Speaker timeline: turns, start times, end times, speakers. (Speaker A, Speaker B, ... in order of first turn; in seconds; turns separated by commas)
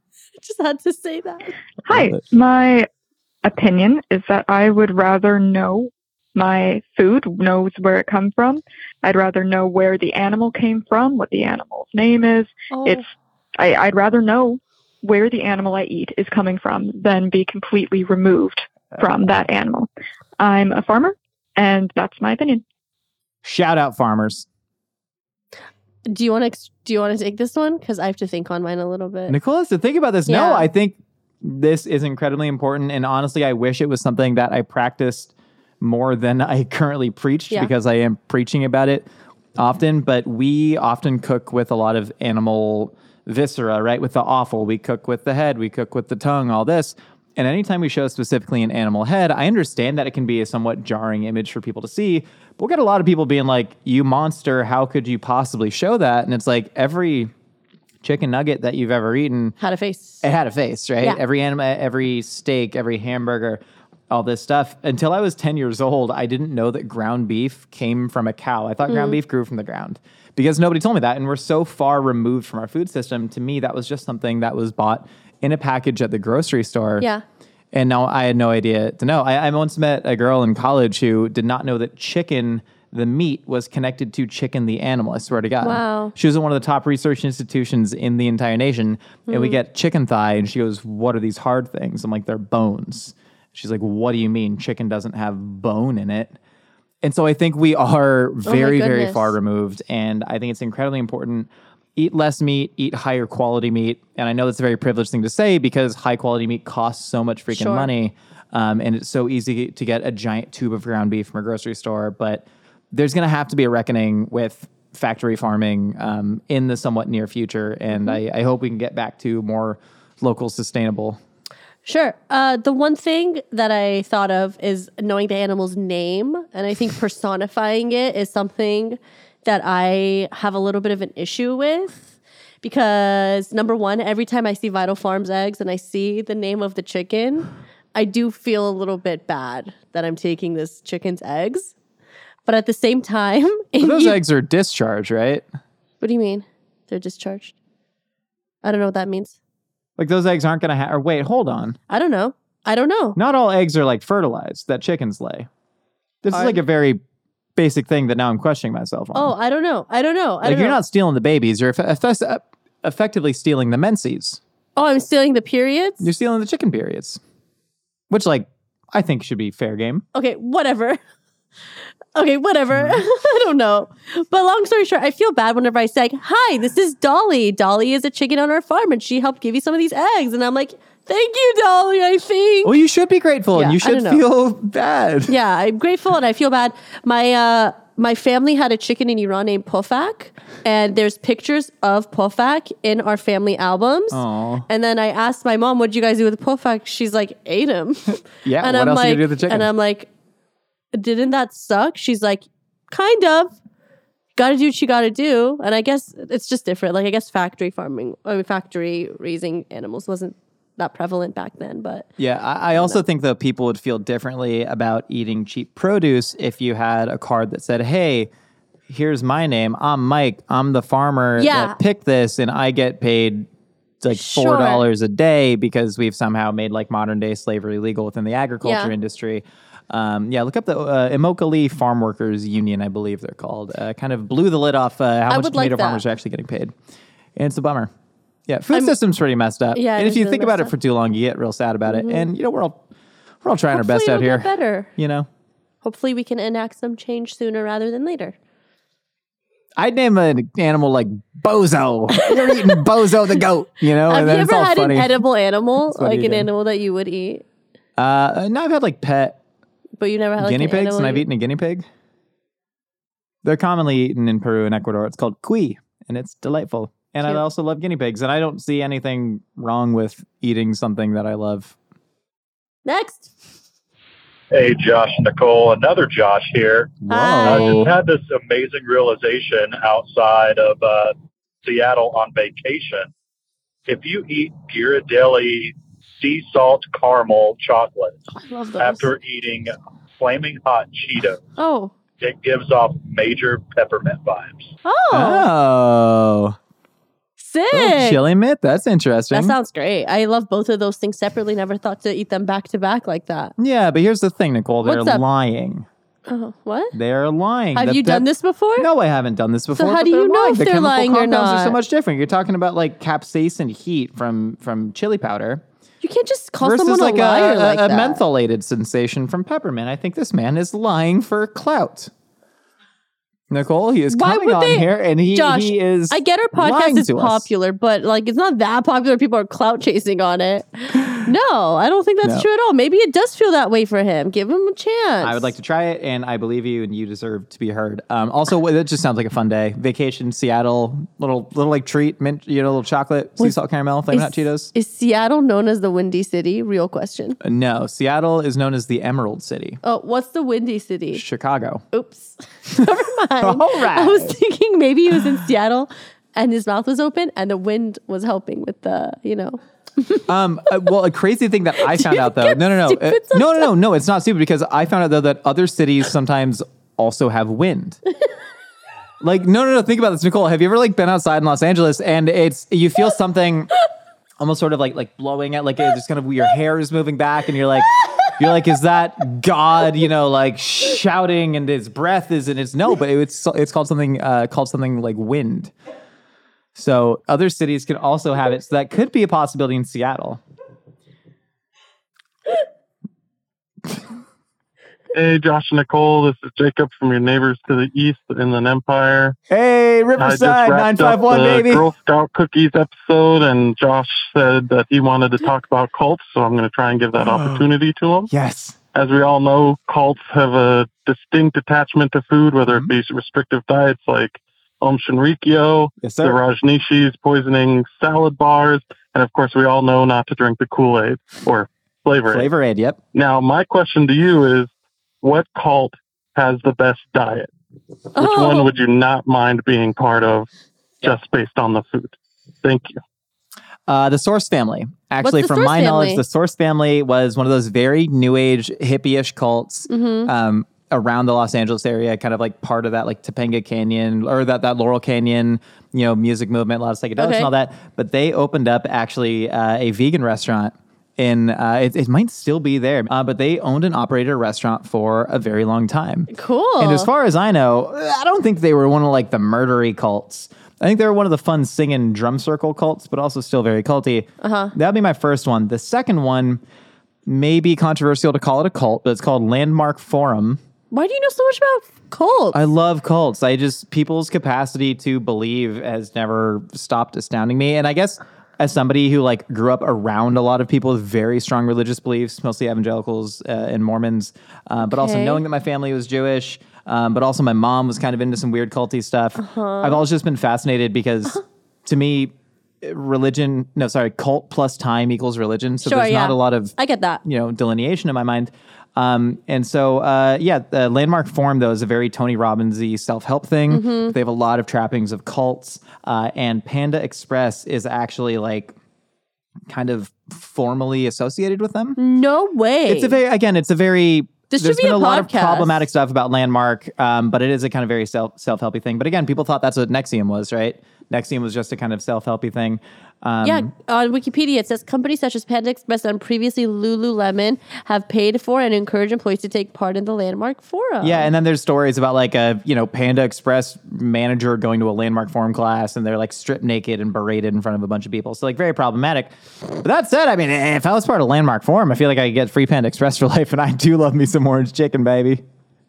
Speaker A: 0.4-1.6, Speaker B: 1.9-2.9, Speaker C: 1.9-2.2, Speaker B: 3.5-13.1, Speaker A: 12.7-13.0, Speaker B: 13.6-22.6, Speaker C: 23.4-24.5, Speaker A: 26.1-29.4, Speaker C: 29.3-57.3, Speaker A: 30.3-30.7, Speaker C: 58.0-59.6, Speaker A: 59.6-60.2, Speaker C: 60.2-77.1, Speaker A: 68.9-69.2, Speaker C: 77.7-96.3, Speaker A: 85.6-86.1, Speaker A: 89.3-89.6, Speaker C: 97.0-121.2, Speaker A: 98.5-99.3, Speaker A: 107.5-107.9, Speaker A: 121.8-132.0, Speaker A: 132.6-141.7, Speaker A: 142.5-144.2, Speaker C: 143.8-145.4, Speaker A: 146.0-147.5, Speaker A: 148.6-149.4, Speaker C: 150.0-151.8, Speaker A: 151.9-153.2, Speaker C: 153.2-155.5, Speaker C: 156.2-157.0, Speaker A: 156.3-156.6, Speaker C: 157.6-159.3, Speaker A: 159.2-160.8, Speaker C: 160.4-164.4, Speaker A: 164.8-166.0, Speaker C: 166.0-167.2, Speaker C: 168.1-170.1, Speaker A: 170.1-171.0, Speaker A: 172.2-182.7, Speaker C: 172.7-173.0, Speaker C: 182.6-185.3, Speaker A: 183.5-184.2, Speaker A: 185.3-200.1, Speaker C: 194.1-194.7, Speaker C: 198.4-199.7, Speaker A: 200.9-203.5, Speaker A: 204.4-212.1, Speaker C: 212.2-218.3, Speaker C: 218.9-223.5, Speaker A: 221.4-221.8, Speaker C: 224.0-236.7, Speaker A: 224.1-224.8, Speaker A: 228.6-228.9, Speaker A: 235.3-236.0, Speaker C: 237.4-237.9, Speaker C: 238.5-242.8, Speaker A: 239.7-240.7, Speaker A: 241.9-242.3, Speaker C: 243.4-245.3, Speaker A: 243.7-244.9, Speaker A: 245.8-248.3, Speaker C: 249.8-255.2, Speaker A: 252.2-252.8, Speaker A: 254.1-257.4, Speaker C: 255.9-256.5, Speaker C: 258.0-259.4, Speaker A: 260.0-261.2, Speaker C: 260.4-261.9, Speaker C: 263.4-271.8, Speaker A: 272.9-273.3, Speaker D: 274.5-283.1, Speaker C: 277.1-277.9, Speaker A: 277.1-277.9, Speaker D: 283.9-288.2, Speaker A: 288.3-289.1, Speaker D: 288.8-291.4, Speaker A: 291.6-291.9, Speaker D: 292.2-294.7, Speaker A: 294.9-295.5, Speaker C: 295.1-296.6, Speaker A: 297.4-298.2, Speaker C: 297.7-299.6, Speaker A: 299.3-303.5, Speaker C: 303.6-305.9, Speaker A: 304.9-305.2, Speaker A: 306.3-306.9, Speaker C: 306.9-308.3, Speaker A: 307.8-308.9, Speaker C: 308.8-315.6, Speaker A: 309.8-311.8, Speaker A: 316.0-318.2, Speaker C: 316.6-322.1, Speaker C: 323.5-327.5, Speaker A: 324.1-335.5, Speaker C: 330.9-331.3, Speaker C: 335.2-344.7, Speaker A: 344.1-347.4, Speaker C: 347.4-349.8, Speaker A: 349.8-351.2, Speaker C: 351.1-351.8, Speaker A: 351.9-360.2, Speaker C: 353.4-354.4, Speaker C: 360.3-368.0, Speaker A: 361.9-363.7, Speaker C: 369.2-373.7, Speaker C: 374.4-385.7, Speaker C: 386.8-390.4, Speaker E: 395.1-399.4, Speaker C: 399.5-401.9, Speaker E: 400.2-408.3, Speaker C: 407.1-407.7, Speaker C: 408.3-408.8, Speaker E: 408.9-422.5, Speaker C: 412.7-412.9, Speaker C: 416.0-416.4, Speaker C: 422.3-423.0, Speaker E: 423.1-424.7, Speaker E: 425.2-427.5, Speaker A: 428.1-428.7, Speaker E: 428.1-430.5, Speaker E: 431.0-433.0, Speaker C: 433.9-466.6, Speaker A: 435.2-436.2, Speaker A: 439.9-440.3, Speaker A: 447.2-447.5, Speaker A: 456.3-457.1, Speaker A: 464.4-464.7, Speaker C: 467.3-470.6, Speaker A: 470.9-472.6, Speaker C: 472.5-508.7, Speaker A: 484.8-485.4, Speaker A: 489.4-490.0, Speaker A: 495.8-497.2, Speaker A: 503.7-504.1, Speaker C: 509.7-512.0, Speaker A: 512.0-513.2, Speaker C: 512.9-523.7, Speaker A: 514.5-515.9, Speaker A: 523.4-531.3, Speaker C: 531.0-545.4